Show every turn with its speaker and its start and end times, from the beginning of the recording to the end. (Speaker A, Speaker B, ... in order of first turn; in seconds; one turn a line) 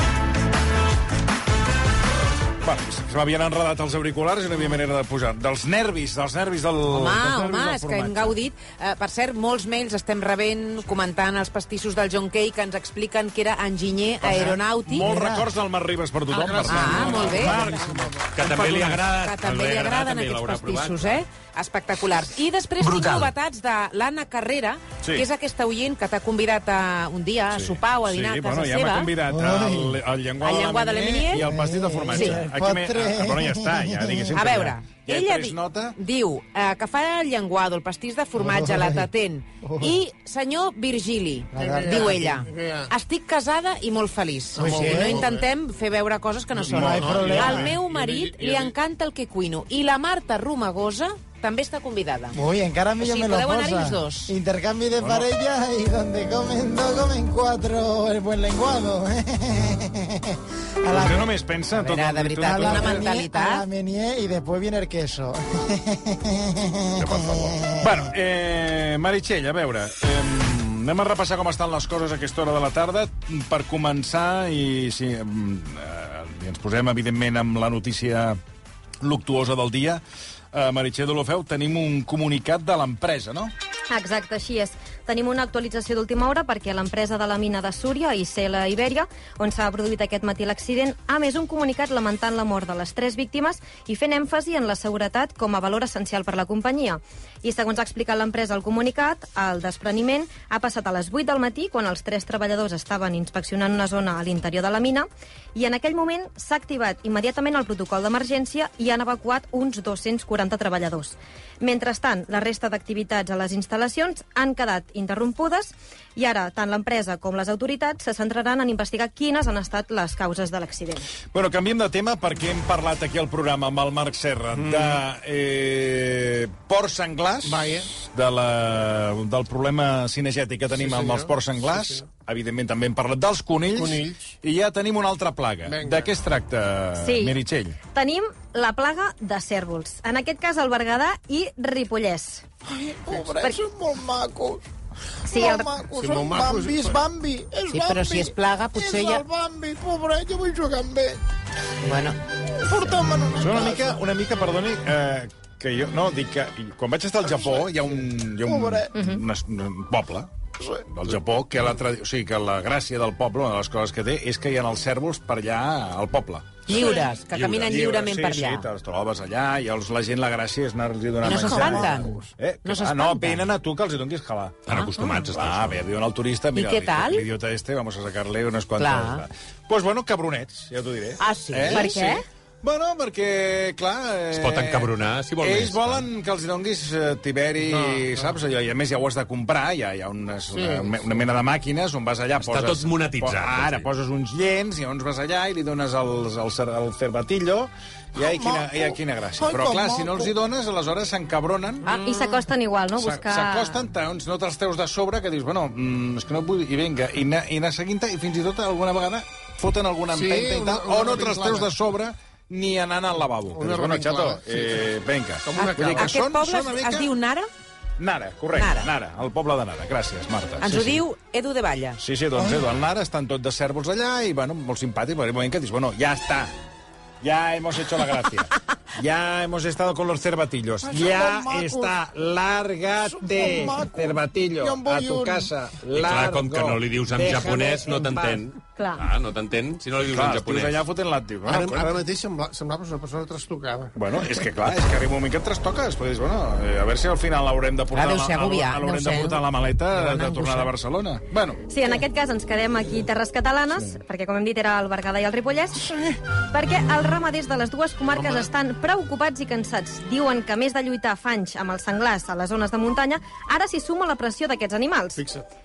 Speaker A: 2.6-8.4
Speaker B: 6.9-15.1
Speaker A: 14.2-17.9
Speaker C: 15.1-15.5
Speaker D: 16.3-18.4
Speaker B: 16.7-17.7
Speaker E: 18.3-21.2
Speaker B: 18.5-29.1
Speaker E: 22.8-23.3
Speaker A: 25.0-25.3
Speaker A: 27.5-36.0
Speaker C: 29.3-30.0
Speaker B: 30.4-31.5
Speaker C: 31.3-34.4
Speaker B: 32.1-32.4
Speaker B: 34.3-52.4
Speaker C: 38.4-39.1
Speaker C: 39.6-40.0
Speaker C: 41.5-42.2
Speaker D: 41.6-42.9
Speaker C: 44.5-45.3
Speaker D: 44.6-45.5
Speaker A: 46.7-47.8
Speaker C: 46.8-47.7
Speaker D: 46.9-48.7
Speaker C: 52.3-67.9
Speaker B: 53.0-54.3
Speaker A: 55.0-55.3
Speaker A: 60.9-63.1
Speaker B: 61.9-63.7
Speaker E: 67.0-67.7
Speaker A: 67.8-78.4
Speaker A: 79.0-83.5
Speaker F: 83.9-121.1
Speaker A: 121.3-137.8
Speaker D: 124.5-125.0
Speaker D: 127.4-127.9
Speaker D: 130.7-132.1
Speaker D: 133.7-134.3
Speaker D: 135.7-136.1
Speaker F: 137.0-137.4
Speaker F: 137.9-142.4
Speaker C: 142.7-144.7
Speaker F: 145.3-145.7
Speaker C: 145.3-151.2
Speaker D: 145.9-147.0
Speaker B: 147.7-149.2
Speaker B: 151.8-152.2
Speaker C: 152.6-154.0
Speaker A: 153.4-160.3
Speaker C: 158.4-158.9
Speaker F: 158.9-159.2
Speaker A: 160.9-166.8
Speaker E: 166.7-168.1
Speaker B: 166.7-168.7
Speaker A: 167.6-201.9
Speaker B: 171.2-173.5
Speaker F: 171.5-171.8
Speaker E: 174.7-175.8
Speaker B: 174.8-175.1
Speaker B: 176.6-177.3
Speaker B: 178.8-179.2
Speaker B: 181.2-182.0
Speaker F: 181.7-182.2
Speaker E: 184.3-186.1
Speaker D: 187.6-188.4
Speaker D: 190.5-191.0
Speaker E: 192.4-193.9
Speaker C: 198.2-200.3
Speaker F: 201.9-203.8
Speaker A: 203.0-217.2
Speaker D: 210.1-211.7
Speaker D: 213.5-214.9
Speaker D: 215.4-216.1
Speaker B: 215.6-217.5
Speaker A: 218.0-221.1
Speaker B: 218.5-218.9
Speaker B: 220.6-222.0
Speaker A: 222.0-226.5
Speaker C: 222.4-222.7
Speaker A: 227.2-238.4
Speaker C: 230.8-231.9
Speaker C: 233.1-235.5
Speaker E: 235.9-240.8
Speaker F: 238.8-239.1
Speaker A: 240.0-242.0
Speaker D: 241.4-243.9
Speaker A: 244.0-251.6
Speaker B: 247.9-250.7
Speaker F: 251.7-265.2
Speaker D: 258.1-258.5
Speaker D: 265.2-265.4